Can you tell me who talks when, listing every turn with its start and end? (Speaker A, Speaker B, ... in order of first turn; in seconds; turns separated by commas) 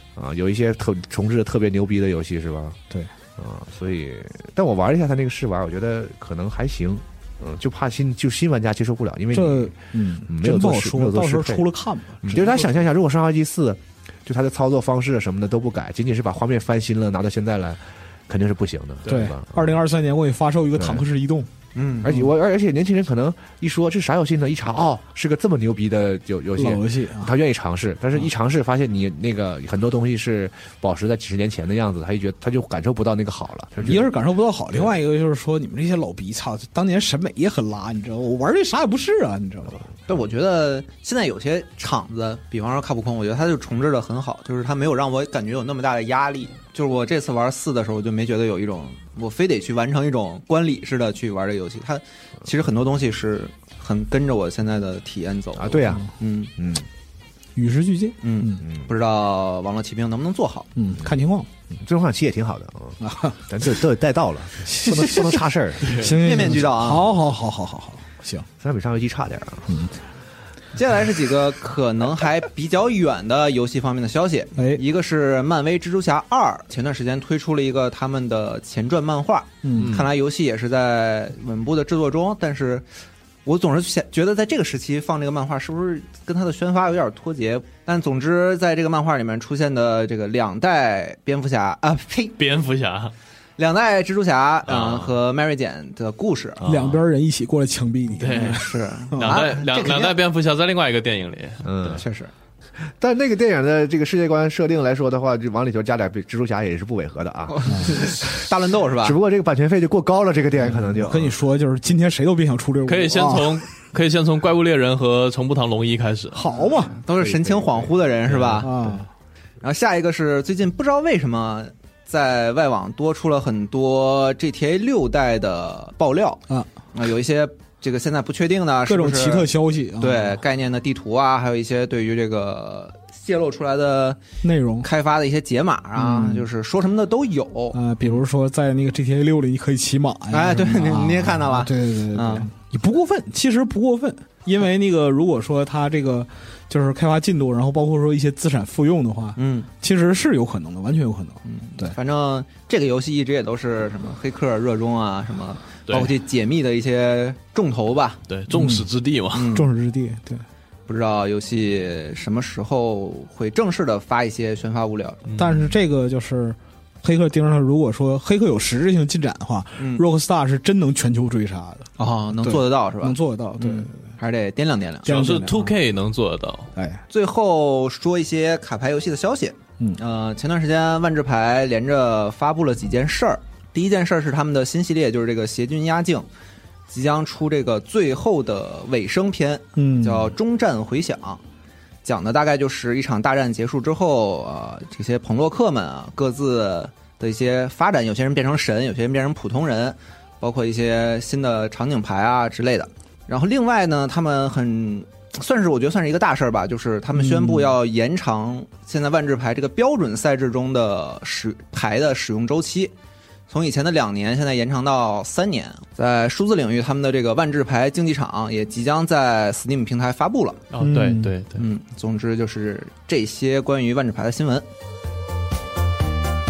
Speaker A: 0.2-2.8, Speaker A: 3.4-11.7, Speaker B: 9.3-12.7, Speaker A: 12.2-19.8, Speaker B: 19.1-21.5, Speaker A: 20.8-21.0, Speaker C: 21.8-22.1, Speaker A: 22.0-34.1, Speaker B: 26.6-27.3, Speaker B: 33.8-39.9, Speaker C: 40.1-56.5, Speaker A: 55.5-56.1, Speaker A: 56.6-56.9, Speaker B: 57.6-58.6, Speaker C: 58.2-60.7, Speaker A: 58.6-58.9, Speaker B: 60.8-61.5, Speaker A: 61.8-66.0, Speaker B: 63.0-63.5, Speaker B: 64.6-68.5, Speaker D: 65.9-66.1, Speaker C: 66.1-67.1, Speaker A: 68.6-69.7, Speaker B: 69.7-70.0, Speaker C: 70.8-82.9, Speaker B: 79.6-79.9, Speaker D: 79.8-80.1, Speaker C: 83.5-92.4, Speaker D: 92.4-93.1, Speaker C: 93.6-96.6, Speaker D: 94.7-95.2, Speaker D: 96.6-97.0, Speaker B: 96.7-99.4, Speaker D: 98.2-102.0, Speaker C: 98.4-100.2, Speaker A: 101.6-102.0, Speaker C: 101.9-102.3, Speaker A: 102.8-108.4, Speaker C: 107.5-109.2, Speaker A: 109.0-111.3, Speaker B: 110.8-113.6, Speaker D: 112.9-116.4, Speaker B: 116.3-116.9, Speaker C: 116.9-118.7, Speaker A: 117.2-117.9, Speaker D: 118.3-118.7, Speaker B: 118.6-119.1, Speaker C: 119.6-126.4, Speaker C: 126.9-134.2, Speaker B: 128.9-130.4, Speaker B: 134.4-134.9, Speaker C: 134.8-138.2, Speaker B: 136.0-136.4, Speaker B: 137.7-152.0, Speaker C: 140.3-142.5, Speaker C: 149.4-149.7, Speaker C: 151.5-158.2, Speaker D: 155.9-156.2, Speaker D: 158.3-159.6, Speaker B: 158.5-158.9, Speaker C: 159.3-159.7, Speaker B: 159.5-160.4, Speaker C: 160.9-165.2, Speaker D: 165.3-165.7, Speaker B: 165.4-174.1, Speaker C: 169.8-170.1, Speaker C: 172.0-175.4, Speaker B: 175.1-175.7, Speaker D: 175.1-176.7, Speaker B: 176.8-177.0, Speaker C: 177.1-186.3, Speaker C: 186.9-191.4, Speaker B: 189.8-190.3, Speaker C: 192.0-212.9, Speaker B: 207.1-207.8, Speaker C: 213.5-220.6, Speaker D: 220.7-221.7, Speaker B: 220.8-221.3, Speaker C: 221.6-224.7